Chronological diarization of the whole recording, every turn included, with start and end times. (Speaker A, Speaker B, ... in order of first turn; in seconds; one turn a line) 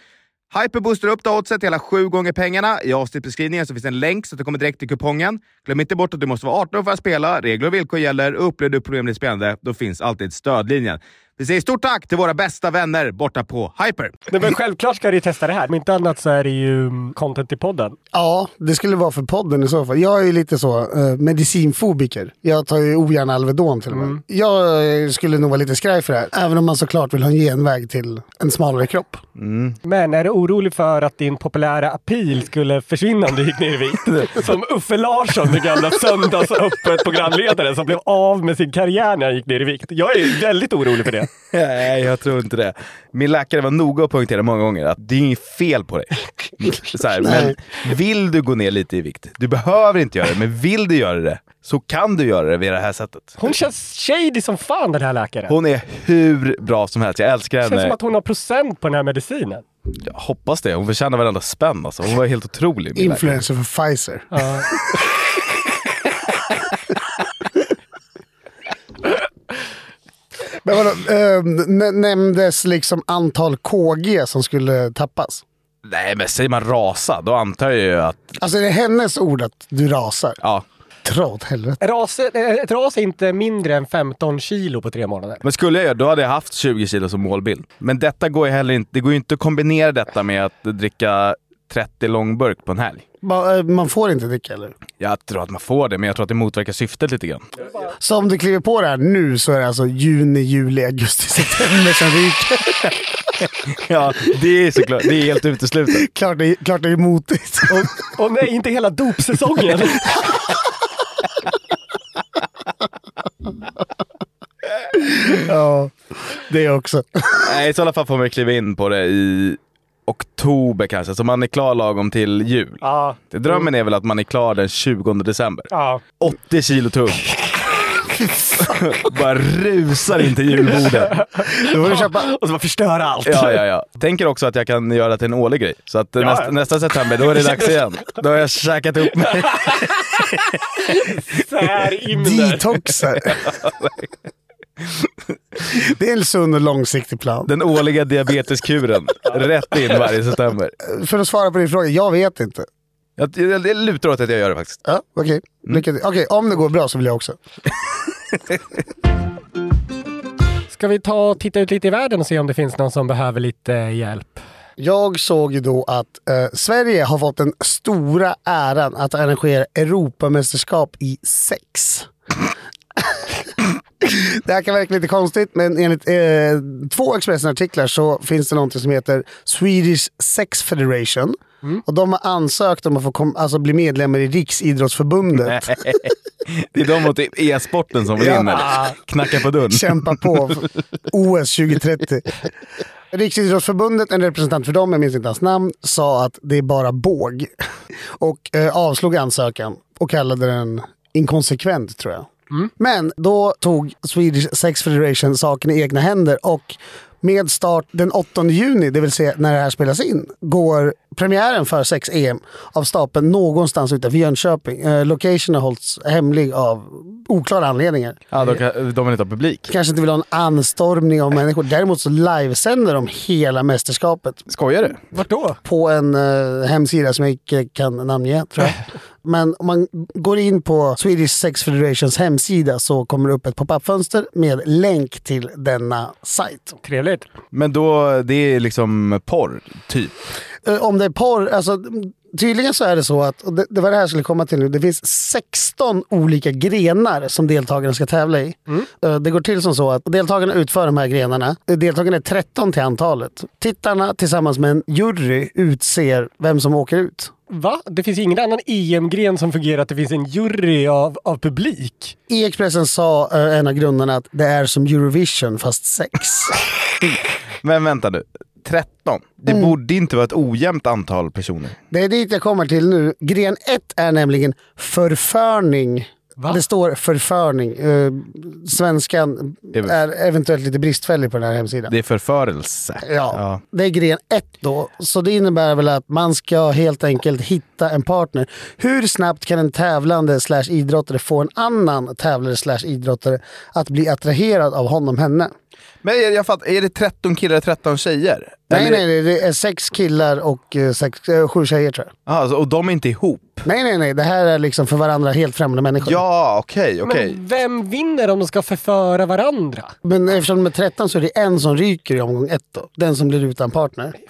Speaker A: 0.5-14.2
Speaker B: 14.3-18.0
Speaker C: 18.1-29.2
Speaker B: 23.9-24.2
Speaker A: 29.4-29.8
Speaker B: 29.9-41.3
Speaker A: 34.0-34.5
Speaker A: 41.5-53.4
Speaker C: 47.2-47.5
Speaker B: 53.4-55.5
Speaker A: 55.5-58.0
Speaker B: 57.6-59.6
Speaker A: 60.0-63.4
Speaker C: 63.0-64.5
Speaker B: 64.3-64.7
Speaker C: 70.6-75.4
Speaker A: 75.9-78.3
Speaker C: 78.4-80.4
Speaker C: 81.0-81.8
Speaker B: 81.8-85.4
Speaker A: 85.4-93.0
Speaker C: 93.2-94.8
Speaker A: 95.0-97.5
Speaker C: 98.0-102.9
Speaker A: 103.8-106.0
Speaker C: 106.0-107.9
Speaker B: 107.7-110.2
Speaker C: 115.0-117.5
Speaker A: 117.4-127.3
Speaker B: 122.8-123.6
Speaker B: 125.7-126.0
Speaker A: 128.6-131.1
Speaker B: 131.1-133.6
Speaker C: 131.6-132.3
Speaker A: 133.3-139.9
Speaker B: 136.2-137.7
Speaker B: 139.3-140.0
Speaker B: 140.8-142.8
Speaker C: 142.2-143.5
Speaker A: 143.4-143.9
Speaker C: 145.7-147.5
Speaker A: 147.5-150.8
Speaker C: 150.8-152.7
Speaker A: 153.2-154.8
Speaker C: 154.8-157.4
Speaker B: 160.7-164.4
Speaker C: 164.8-172.1
Speaker C: 174.0-185.8
Speaker A: 185.5-190.1
Speaker C: 188.2-188.7
Speaker B: 188.5-188.9
Speaker C: 189.7-192.3
Speaker C: 193.1-197.5
Speaker C: 198.2-218.2
Speaker A: 218.3-219.7
Speaker C: 219.7-224.4
Speaker A: 224.5-225.0
Speaker B: 225.1-225.6
Speaker C: 225.6-236.8
Speaker B: 236.8-237.3
Speaker A: 237.5-240.3
Speaker C: 240.6-257.3
Speaker B: 257.5-262.2
Speaker C: 262.3-266.6
Speaker A: 267.6-271.8
Speaker C: 271.9-281.9
Speaker A: 281.9-283.6
Speaker C: 283.0-295.5
Speaker A: 296.0-299.0
Speaker C: 298.7-302.1
Speaker A: 302.3-303.6
Speaker C: 303.6-306.2
Speaker A: 306.0-307.4
Speaker B: 307.0-309.9
Speaker C: 310.0-314.1